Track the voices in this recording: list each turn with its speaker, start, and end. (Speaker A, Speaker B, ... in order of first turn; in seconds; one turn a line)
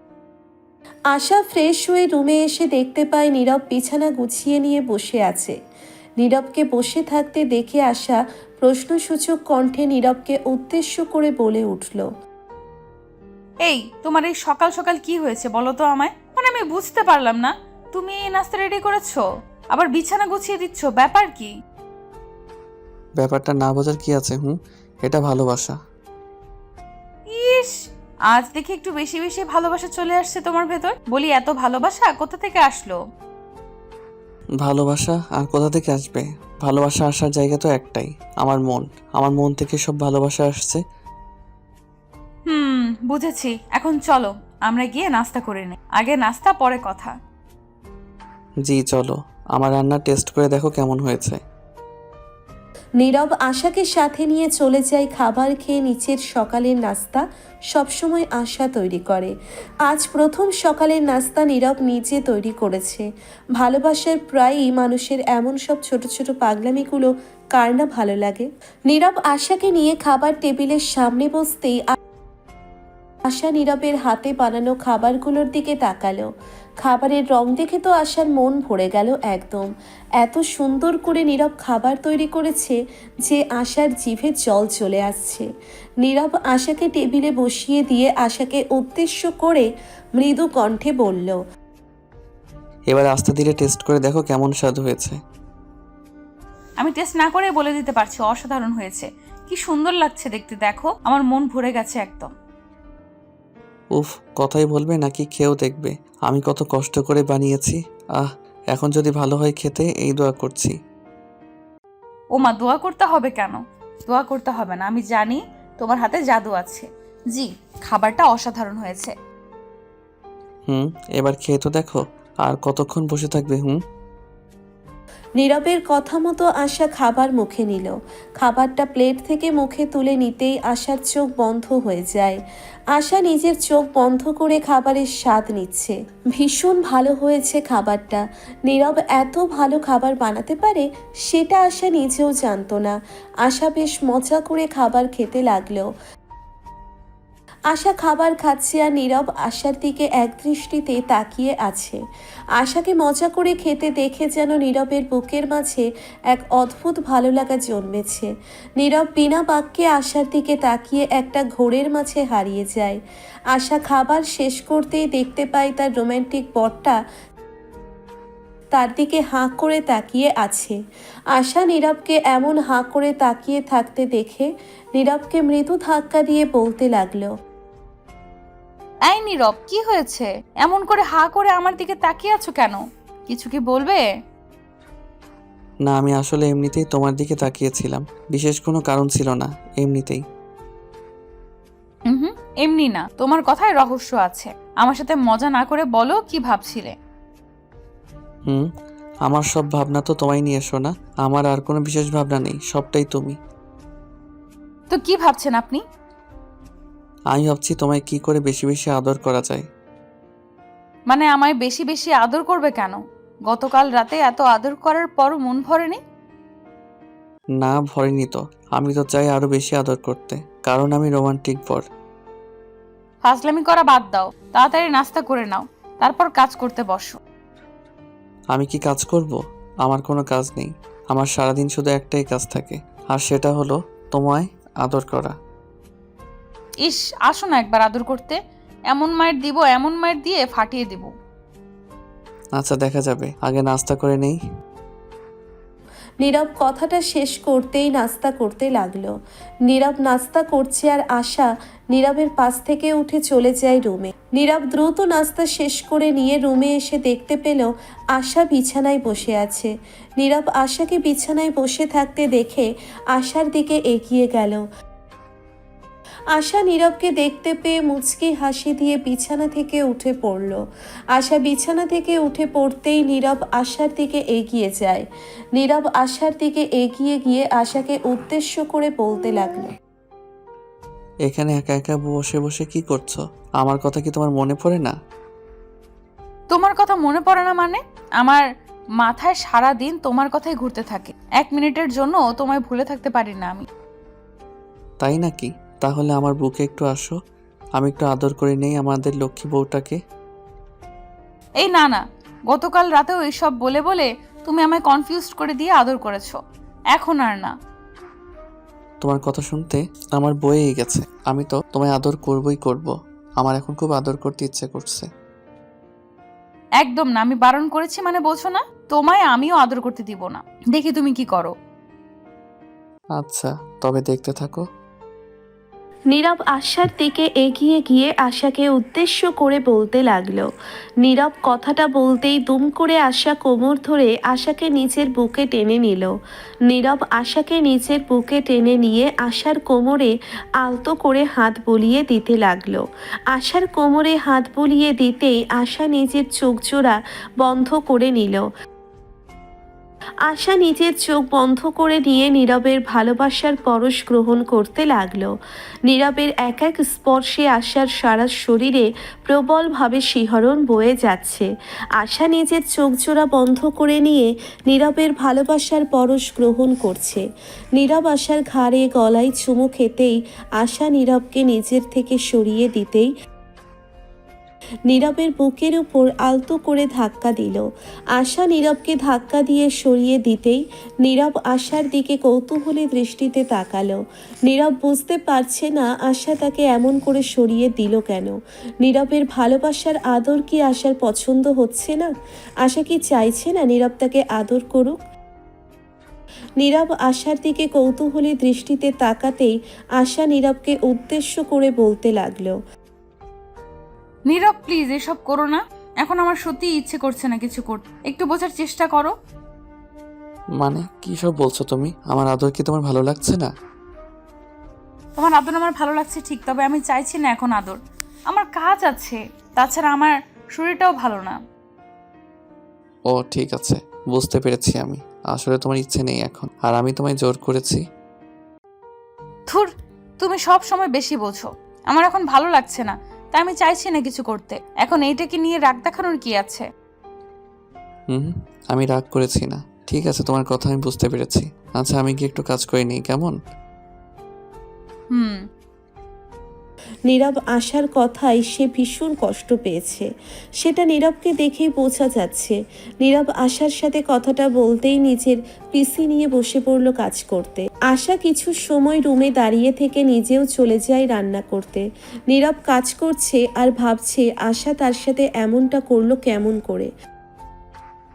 Speaker A: 1.1-5.5
Speaker A: 6.2-12.1
Speaker B: 13.6-21.5
Speaker C: 23.2-25.8
Speaker B: 27.3-27.7
Speaker B: 28.3-33.0
Speaker C: 34.6-40.8
Speaker B: 42.5-47.1
Speaker C: 48.7-51.4
Speaker A: 53.0-59.3
Speaker A: 59.9-63.1
Speaker A: 63.6-71.9
Speaker A: 73.3-76.3
Speaker A: 76.8-79.7
Speaker A: 80.2-85.5
Speaker A: 86.0-89.7
Speaker A: 90.2-91.4
Speaker C: 92.9-95.2
Speaker B: 96.8-102.3
Speaker C: 104.0-110.8
Speaker B: 112.4-119.1
Speaker C: 120.7-123.8
Speaker A: 125.4-132.4
Speaker A: 132.9-145.9
Speaker A: 147.7-152.0
Speaker A: 152.6-163.0
Speaker A: 163.5-167.0
Speaker A: 168.8-170.8
Speaker A: 171.3-177.3
Speaker B: 179.1-184.0
Speaker C: 185.9-190.2
Speaker B: 192.1-197.0
Speaker C: 199.3-203.4
Speaker B: 204.9-205.8
Speaker C: 207.3-209.6
Speaker B: 211.1-216.0
Speaker C: 217.6-221.8
Speaker B: 223.2-227.2
Speaker C: 228.5-235.4
Speaker B: 236.8-238.4
Speaker B: 238.9-241.1
Speaker C: 242.6-244.4
Speaker A: 246.2-249.1
Speaker A: 249.7-264.6
Speaker A: 266.4-270.6
Speaker A: 271.1-275.1
Speaker A: 275.6-279.7
Speaker C: 281.3-284.9
Speaker B: 286.5-288.4
Speaker B: 289.0-293.6
Speaker C: 295.0-297.1
Speaker C: 297.8-300.0
Speaker B: 301.6-306.4
Speaker B: 306.9-307.5
Speaker C: 309.0-315.1
Speaker B: 316.8-321.5
Speaker C: 323.2-324.6
Speaker A: 326.1-330.5
Speaker A: 331.0-336.1
Speaker A: 336.7-348.4
Speaker A: 350.3-355.3
Speaker A: 355.9-367.2
Speaker A: 367.8-373.1
Speaker A: 374.9-392.1
Speaker A: 392.6-395.0
Speaker A: 396.6-402.6
Speaker B: 404.3-409.1
Speaker C: 410.6-413.5
Speaker B: 415.2-417.8
Speaker B: 418.3-421.4
Speaker C: 423.1-427.8
Speaker B: 430.2-436.7
Speaker C: 438.1-443.4
Speaker B: 445.1-445.4
Speaker A: 447.1-450.1
Speaker A: 450.6-466.9